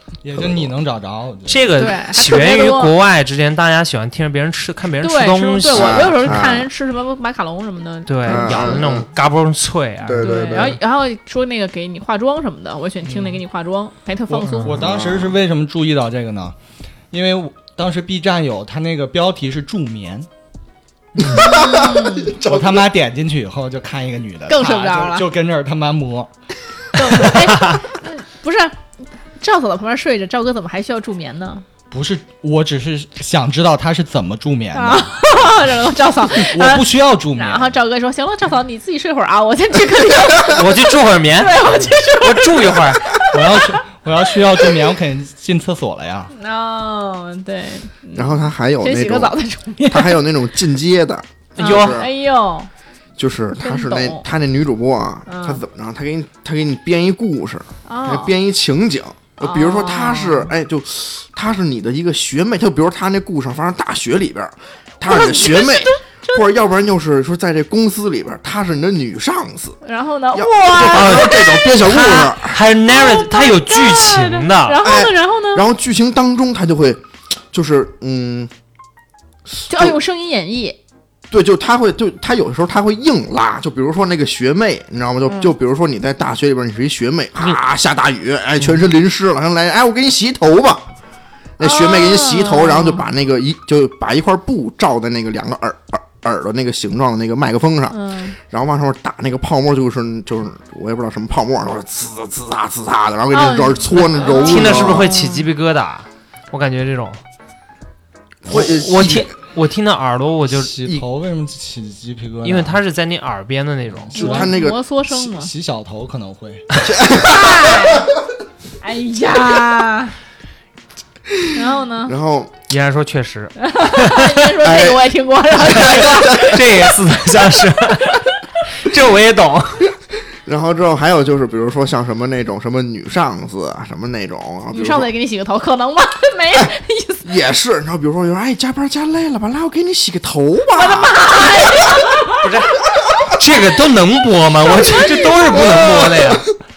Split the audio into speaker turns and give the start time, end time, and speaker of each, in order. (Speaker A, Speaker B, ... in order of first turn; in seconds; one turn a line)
Speaker A: 0.2-1.7
Speaker B: 0.3-0.7
Speaker C: 1.5-6.4
Speaker D: 1.8-2.9
Speaker D: 5.0-8.8
Speaker B: 5.7-6.7
Speaker C: 8.1-10.7
Speaker B: 8.2-9.1
Speaker B: 10.0-10.8
Speaker D: 10.2-14.8
Speaker A: 13.1-13.4
Speaker A: 14.3-16.5
Speaker B: 14.7-15.3
Speaker A: 17.1-20.3
Speaker B: 21.2-22.9
Speaker D: 21.3-22.3
Speaker A: 22.4-26.3
Speaker D: 24.5-25.3
Speaker D: 26.9-31.6
Speaker A: 31.9-35.5
Speaker D: 34.7-43.8
Speaker A: 36.3-37.8
Speaker C: 40.4-43.1
Speaker A: 43.3-46.3
Speaker D: 46.3-50.2
Speaker B: 48.1-49.3
Speaker B: 49.9-52.1
Speaker C: 51.6-52.0
Speaker D: 51.6-52.7
Speaker B: 53.2-69.8
Speaker D: 53.6-54.2
Speaker D: 55.3-55.6
Speaker D: 57.9-58.3
Speaker D: 59.4-60.5
Speaker D: 65.0-66.4
Speaker D: 69.8-71.7
Speaker B: 70.3-72.6
Speaker C: 70.8-74.8
Speaker D: 72.9-75.6
Speaker B: 74.8-78.5
Speaker B: 79.7-80.0
Speaker D: 79.7-80.8
Speaker B: 81.3-90.9
Speaker D: 85.3-85.5
Speaker B: 91.6-105.0
Speaker D: 91.6-93.0
Speaker D: 97.9-98.4
Speaker D: 103.3-105.5
Speaker C: 104.2-107.2
Speaker B: 108.4-109.3
Speaker C: 108.5-110.9
Speaker A: 110.5-112.8
Speaker C: 112.4-114.4
Speaker A: 114.0-116.7
Speaker B: 114.2-114.8
Speaker D: 114.2-115.5
Speaker B: 116.8-118.1
Speaker D: 117.2-118.1
Speaker D: 118.8-120.1
Speaker D: 121.5-122.1
Speaker B: 122.0-122.5
Speaker C: 122.7-124.2
Speaker D: 123.6-126.9
Speaker B: 124.6-126.6
Speaker C: 125.9-128.2
Speaker D: 127.9-128.3
Speaker C: 128.8-129.9
Speaker B: 130.4-135.1
Speaker D: 134.7-137.3
Speaker B: 137.2-142.0
Speaker D: 140.7-142.5
Speaker C: 142.4-142.8
Speaker C: 143.3-146.5
Speaker D: 144.7-145.8
Speaker B: 145.5-146.4